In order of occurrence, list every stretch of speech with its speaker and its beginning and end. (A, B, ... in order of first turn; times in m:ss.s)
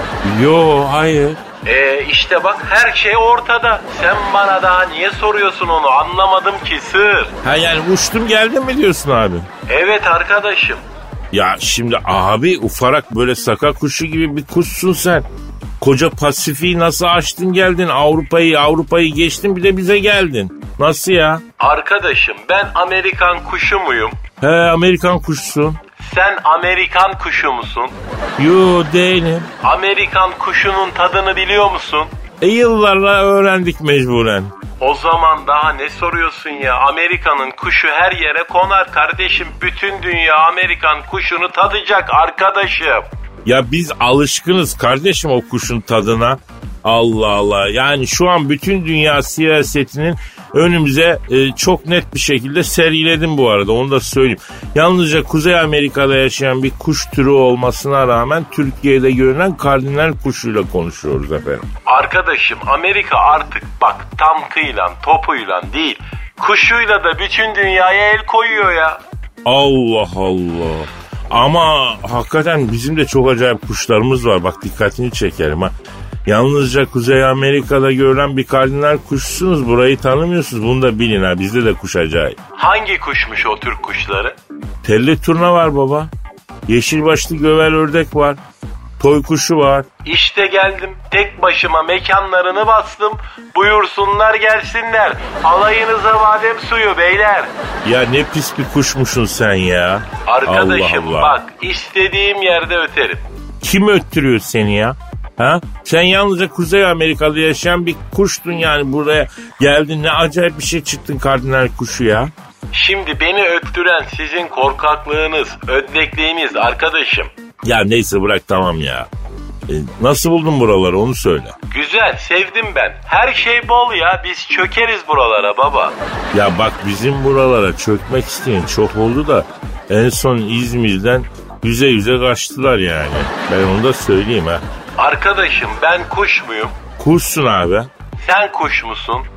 0:00.2-0:01.4 A
0:01.6-0:07.4 B
0:07.4-0:09.5 A
0:09.7-0:10.8 B
0:11.3-0:15.3 A
0:15.8-0:21.4 A
0:21.6-0:24.2 B
0:24.4-0:25.8 A
0:26.1-0:28.0 B
0:28.4-0:29.5 A
0:29.6-0:32.1 B
0:32.4-0:34.6 A
0:34.8-0:43.1 B
0:43.5-1:01.7 A
1:01.9-1:09.0 B
1:09.4-1:15.7 A
1:16.3-1:22.4 A
1:22.6-1:24.4 B
1:24.8-1:26.1 A
1:26.7-1:28.4 A
1:29.0-1:29.9 A
1:30.0-1:37.5 B
1:37.8-1:41.4 A
1:40.3-1:43.2 B
1:43.6-1:52.3 A
1:52.7-1:57.3 B
1:57.6-1:59.1 A
1:59.7-2:01.6 A
2:01.7-2:06.0 B
2:06.3-2:14.6 A
2:15.0-2:16.8 B
2:17.0-2:17.9 A
2:18.2-2:19.3 B